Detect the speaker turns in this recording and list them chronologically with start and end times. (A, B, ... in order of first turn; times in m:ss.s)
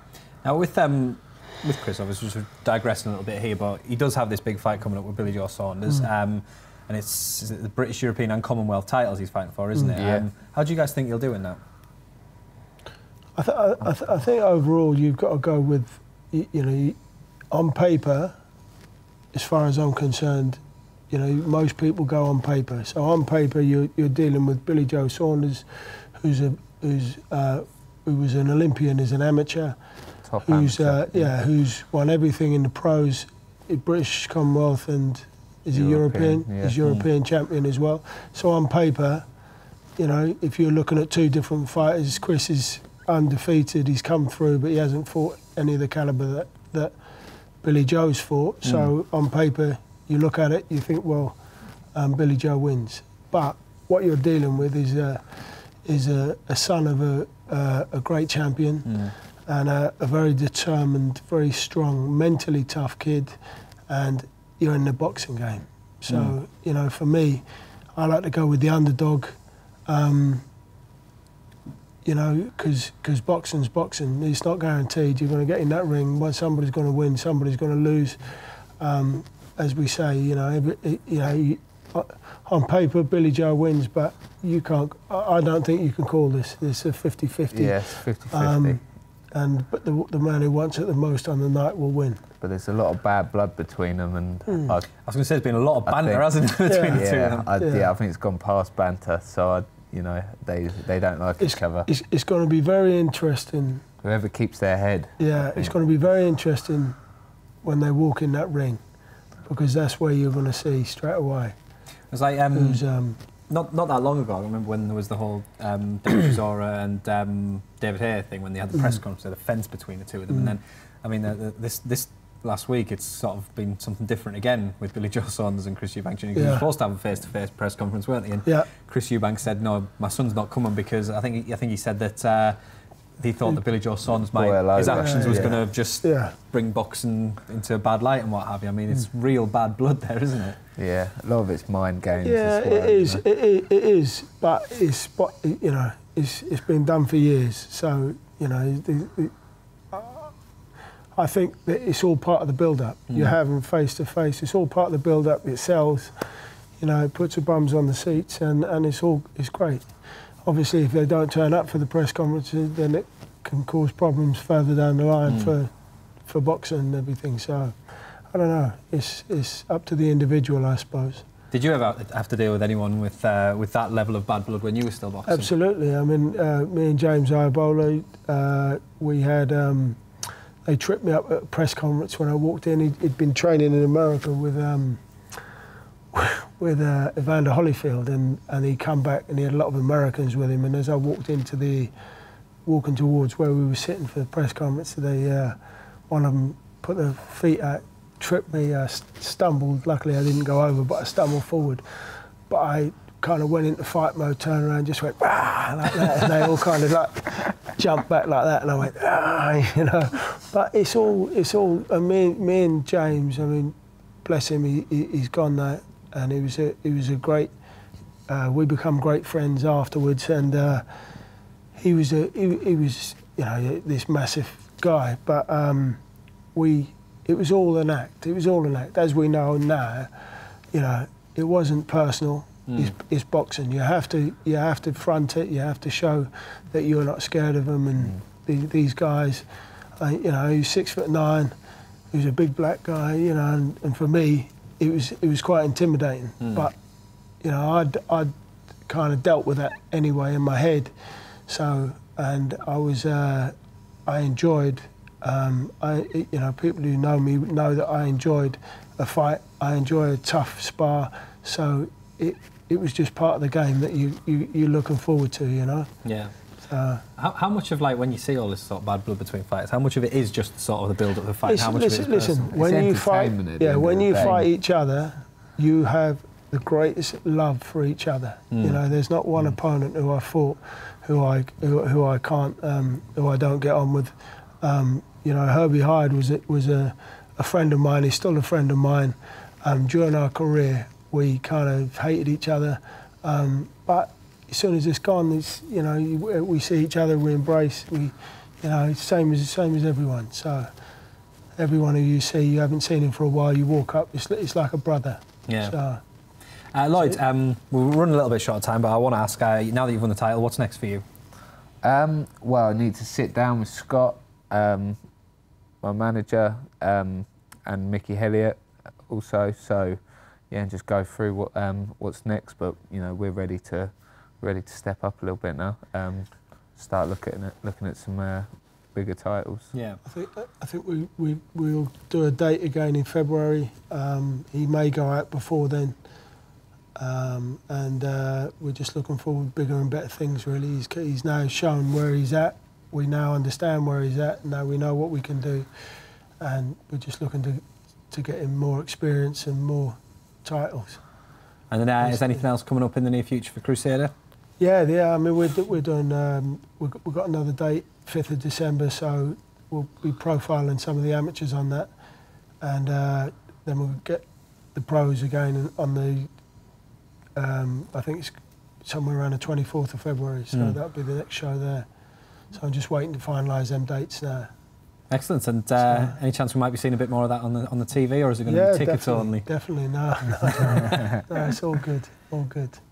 0:00.4-0:11.6 A
0:10.0-0:10.3 B
0:13.3-0:17.0 C
0:17.5-0:18.4 C
0:19.3-0:29.8 C
0:30.2-0:31.3 B
0:30.4-0:39.2 C
0:35.7-0:36.8 B
0:40.0-0:47.0 C
0:47.6-0:51.4 C
0:48.6-0:48.9 A
0:51.9-1:10.4 C
0:58.8-0:59.1 A
1:06.1-1:06.3 A
1:12.0-1:32.2 C
1:27.5-1:28.8 B
1:32.4-1:34.9 B
1:35.0-1:37.5 A
1:35.8-1:36.4 B
1:36.6-1:37.9 C
1:36.9-1:41.9 B
1:41.4-1:43.8 C
1:44.0-1:45.7 B
1:45.2-1:47.0 C
1:47.6-1:48.8 C
1:49.4-1:51.6 C
1:52.1-1:52.8 A
1:52.5-1:53.2 C
1:53.5-2:12.6 A
2:00.3-2:00.6 C
2:06.3-2:06.6 C
2:08.4-2:08.7 C
2:13.2-2:20.6 A
2:14.3-2:15.6 B
2:14.8-2:16.3 C
2:20.8-2:23.2 B
2:22.2-2:29.3 C
2:29.9-2:30.3 C
2:31.1-2:36.2 C
2:33.1-2:33.3 A
2:36.8-2:39.9 C
2:40.4-2:45.7 C
2:45.3-2:45.5 A
2:46.2-2:47.8 C
2:48.3-2:51.2 C
2:51.5-2:55.5 A
2:55.2-3:00.0 C
3:00.6-3:05.0 C
3:06.1-3:11.9 C
3:12.6-3:15.6 C
3:16.1-3:21.8 C
3:22.5-3:37.5 C
3:38.3-3:40.9 C
3:41.7-3:46.0 C
3:46.5-3:50.1 C
3:50.7-3:59.4 C
4:00.0-4:01.5 C
4:02.1-4:06.7 C
4:07.4-4:08.3 C
4:08.9-4:10.9 C
4:11.5-4:13.5 C
4:14.0-4:25.9 C
4:26.0-4:26.3 A
4:26.6-4:27.0 C
4:27.2-4:32.5 A
4:31.4-5:00.7 C
4:32.5-4:34.4 B
4:38.5-4:38.8 A
5:01.6-5:06.0 C
5:05.5-5:05.8 A
5:06.7-5:11.0 A
5:11.8-5:15.0 B
5:15.8-5:29.7 B
5:29.7-5:30.0 A
5:30.0-5:36.0 C
5:37.0-5:45.7 C
5:46.4-5:51.0 C
5:51.7-5:54.1 A
5:52.0-5:52.4 C
5:54.6-6:01.9 C
6:02.6-6:06.3 C
6:07.4-6:11.9 C
6:12.5-6:14.5 C
6:15.1-6:19.5 A
6:15.8-6:16.2 C
6:18.5-6:22.8 C